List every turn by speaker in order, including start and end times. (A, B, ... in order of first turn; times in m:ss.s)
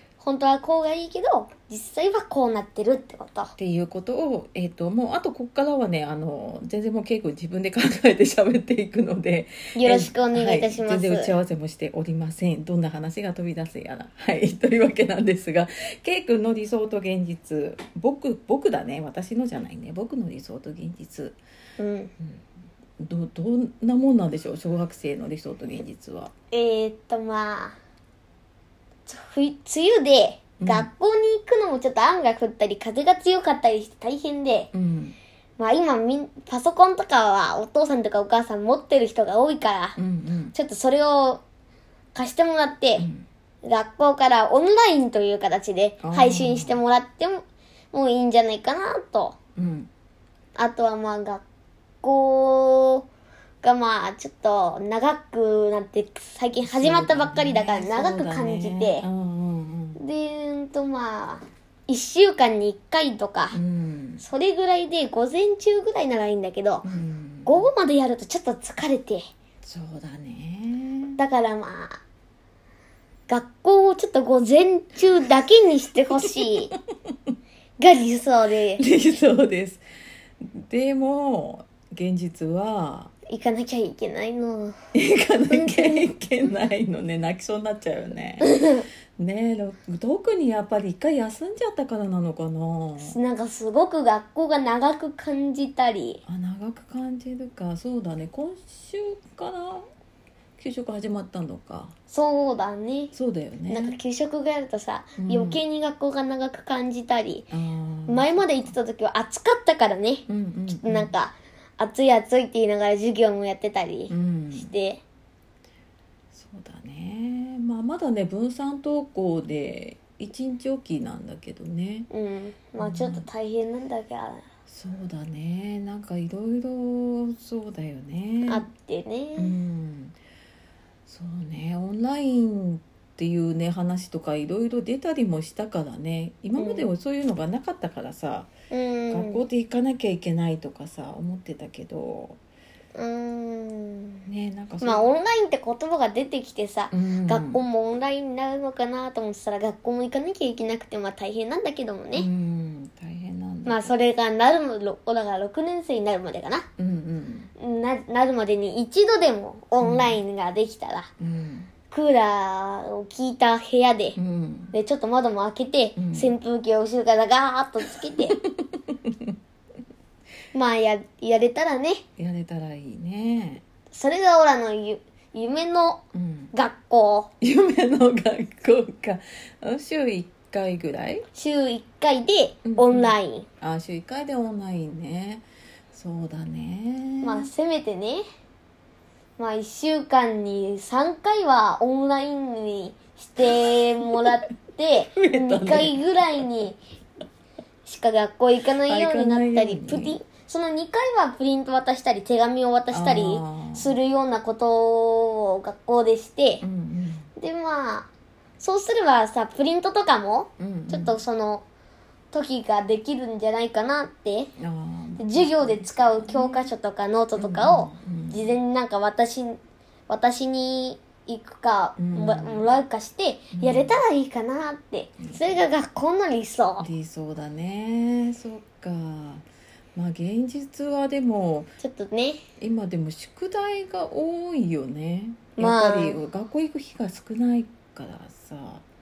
0:00.2-0:03.5 A
0:03.6-0:21.4 B
0:09.7-0:11.3 A
0:21.8-0:22.1 A
0:23.0-0:26.3 B
0:26.5-0:27.8 A
0:29.1-0:34.7 A
0:30.6-0:30.9 B
0:34.7-0:35.2 B
0:35.6-0:40.0 A
0:40.0-0:40.6 B
0:40.5-0:41.4 A
0:42.2-0:43.1 A
0:43.0-0:43.3 B
0:43.6-0:49.4 A
0:46.0-0:46.8 B
0:49.6-0:49.9 B
0:50.6-0:51.4 A
0:52.0-0:53.1 A
0:53.6-0:59.1 A
0:56.6-1:00.0 B
1:00.0-1:03.6 A
1:03.5-1:04.2 B
1:04.2-1:06.9 A
1:06.8-1:07.7 B
1:07.5-1:09.3 A
1:09.6-1:11.2 B
1:11.2-1:12.0 A
1:13.3-1:16.7 A
1:17.8-1:18.8 A
1:18.8-1:19.8 B
1:20.4-1:23.1 B
1:23.3-1:24.8 A
1:24.9-1:28.6 B
1:25.5-1:26.0 A
1:28.4-1:28.9 A
1:29.2-1:33.2 B
1:33.0-1:36.2 A
1:36.3-1:39.8 B
1:40.6-1:41.9 B
1:42.1-1:43.1 A
1:43.1-1:44.0 B
1:43.7-1:47.5 A
1:45.2-1:45.6 B
1:47.5-1:48.7 B
1:48.1-1:55.0 A
1:50.3-1:51.1 B
1:54.1-1:54.7 B
1:56.3-2:02.1 B
2:02.1-2:04.5 A
2:02.8-2:03.3 B
2:04.7-2:08.7 B
2:08.5-2:09.6 A
2:09.4-2:10.2 B
2:11.1-2:18.5 B
2:16.6-2:16.9 A
2:18.7-2:19.4 A
2:19.1-2:22.4 B
2:23.0-2:24.3 A
2:24.3-2:25.1 B
2:24.8-2:32.3 A
2:26.9-2:27.6 B
2:32.1-2:33.9 B
2:33.6-2:36.7 A
2:36.8-2:37.5 B
2:37.6-2:41.1 A
2:39.8-2:40.2 B
2:41.2-2:41.7 B
2:41.9-2:44.2 A
2:44.2-2:44.7 B
2:44.7-2:48.4 A
2:46.0-2:46.4 B
2:48.2-2:49.4 B
2:50.5-2:52.0 A
2:52.2-2:53.6 B
2:53.9-2:57.3 A
2:56.1-2:56.5 B
2:57.4-3:01.3 B
3:01.3-3:03.5 A
3:02.6-3:07.5 B
3:07.2-3:08.2 A
3:09.4-3:16.8 A
3:15.2-3:16.5 B
3:17.8-3:26.6 A
3:18.8-3:20.2 B
3:22.9-3:24.0 B
3:26.6-3:27.3 B
3:27.4-3:28.1 A
3:28.6-3:31.6 A
3:30.6-3:31.2 B
3:32.3-3:34.5 A
3:34.6-3:36.7 B
3:35.2-3:46.9 A
3:37.4-3:38.6 B
3:42.0-3:42.7 B
3:43.5-3:44.0 B
3:45.2-3:45.6 B
3:46.8-3:51.7 B
3:51.8-3:52.4 A
3:52.6-3:58.8 B
3:55.6-3:56.2 A